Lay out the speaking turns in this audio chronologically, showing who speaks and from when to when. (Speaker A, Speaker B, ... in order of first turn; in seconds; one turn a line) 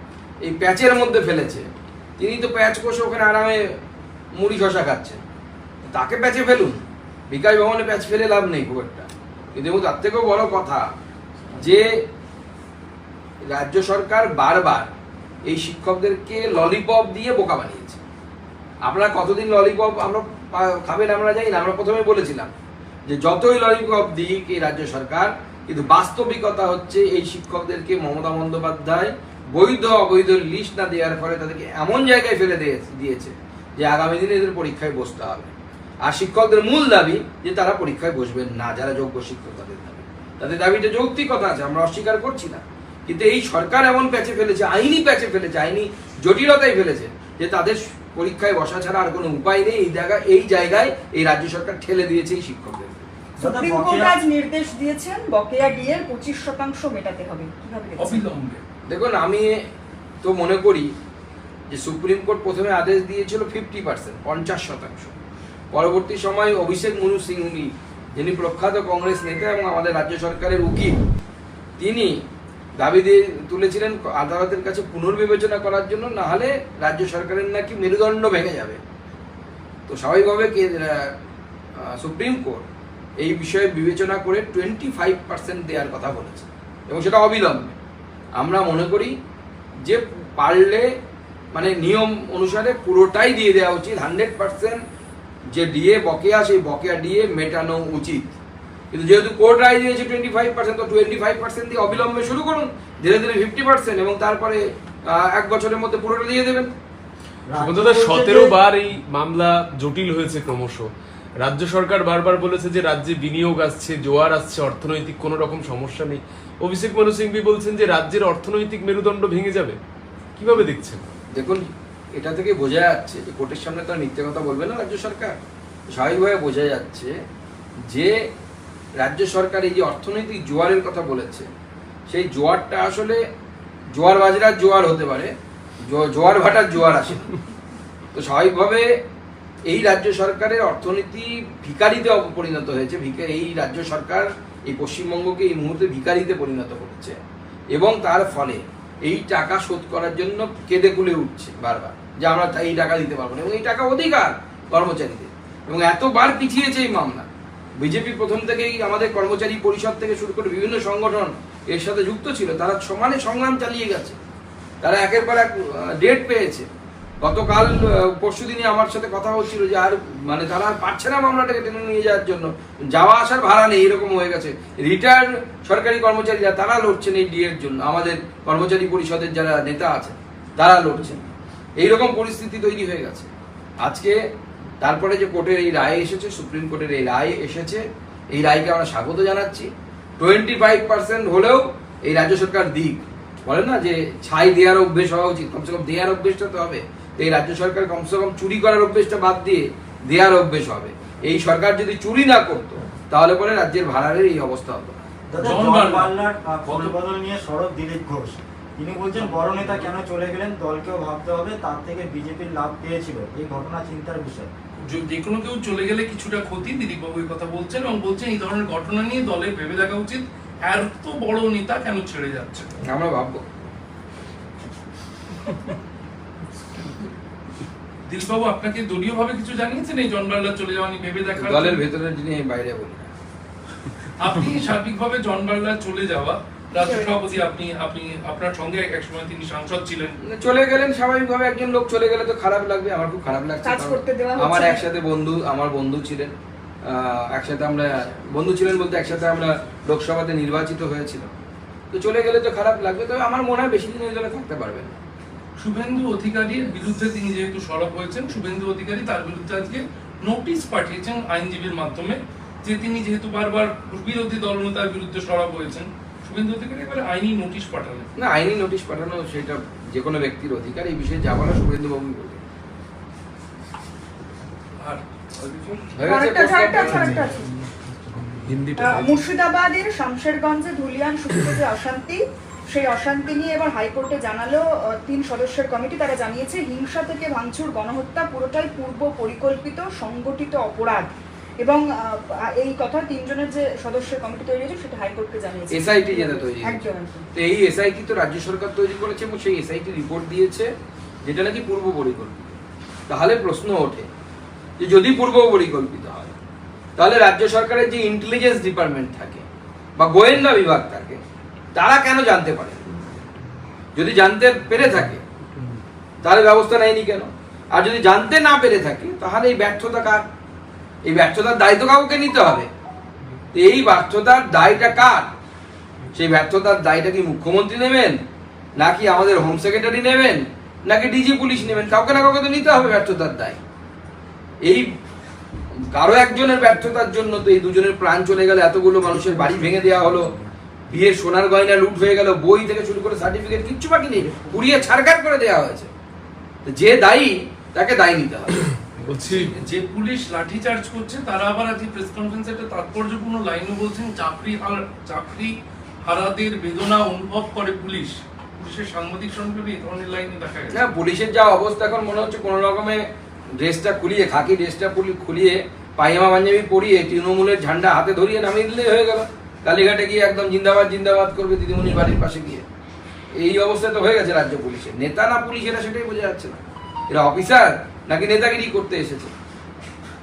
Speaker A: 0.4-3.6
Speaker A: 4.4-5.2
Speaker A: 5.9-10.8
Speaker A: 11.6-12.0
Speaker A: 13.5-14.9
Speaker A: 15.5-18.0
Speaker A: 18.8-22.5
Speaker A: 23.1-35.5
Speaker A: 36.0-53.1
Speaker B: 53.4-54.2
Speaker C: 53.4-58.2
Speaker D: 58.0-58.6
Speaker A: 58.9-59.6
Speaker A: 60.2-60.9
Speaker A: 61.7-65.1
Speaker A: 65.7-71.0
Speaker A: 71.8-72.2
Speaker A: 72.8-78.8
Speaker A: 79.9-81.1
Speaker A: 81.9-82.7
Speaker A: 83.2-87.8
Speaker A: 88.4-89.1
Speaker A: 89.9-90.9
Speaker A: 91.5-94.8
Speaker A: 95.5-98.4
Speaker A: 98.9-106.7
Speaker B: 107.5-108.6
Speaker E: 107.6-110.9
Speaker E: 111.4-119.8
Speaker E: 120.4-121.1
Speaker A: 121.3-121.6
Speaker A: 122.2-125.4
Speaker A: 125.9-127.1
Speaker A: 127.9-128.1
Speaker A: 129.0-131.5
Speaker A: 132.1-133.2
Speaker A: 133.9-135.3
Speaker A: 135.8-137.3
Speaker A: 138.1-138.9
Speaker A: 139.7-147.2
Speaker A: 147.7-164.2
Speaker A: 164.8-166.7
Speaker A: 167.2-183.3
Speaker A: 183.8-184.2
Speaker A: 184.8-205.1
Speaker B: 205.3-214.5
Speaker D: 205.4-206.9
Speaker D: 209.2-209.9
Speaker D: 214.8-222.8
Speaker A: 222.8-223.4
Speaker D: 228.1-231.8
Speaker A: 231.4-233.1
Speaker D: 234.2-240.2
Speaker C: 236.8-237.2
Speaker A: 240.3-246.3
Speaker C: 243.6-244.8
Speaker A: 246.8-251.3
Speaker A: 251.9-255.0
Speaker D: 255.6-268.1
Speaker A: 268.2-272.4
Speaker D: 274.8-275.9
Speaker A: 276.0-277.3
Speaker C: 276.1-277.4
Speaker E: 278.4-279.1
Speaker C: 278.8-297.3
Speaker A: 295.7-300.7
Speaker A: 301.2-302.6
Speaker A: 303.1-304.1
Speaker A: 304.8-306.4
Speaker A: 307.0-309.4
Speaker A: 310.0-311.2
Speaker A: 311.8-312.8
Speaker A: 313.9-315.2
Speaker A: 316.2-320.3
Speaker A: 321.1-322.7
Speaker A: 323.5-325.3
Speaker A: 326.1-328.2
Speaker A: 328.8-333.6
Speaker A: 334.6-334.9
Speaker A: 335.9-340.4
Speaker A: 340.9-345.9
Speaker A: 346.6-348.6
Speaker E: 349.0-349.5
Speaker D: 349.2-355.5
Speaker D: 356.1-360.9
Speaker A: 360.7-363.1
Speaker A: 363.6-372.7
Speaker A: 373.4-376.6
Speaker A: 377.1-379.3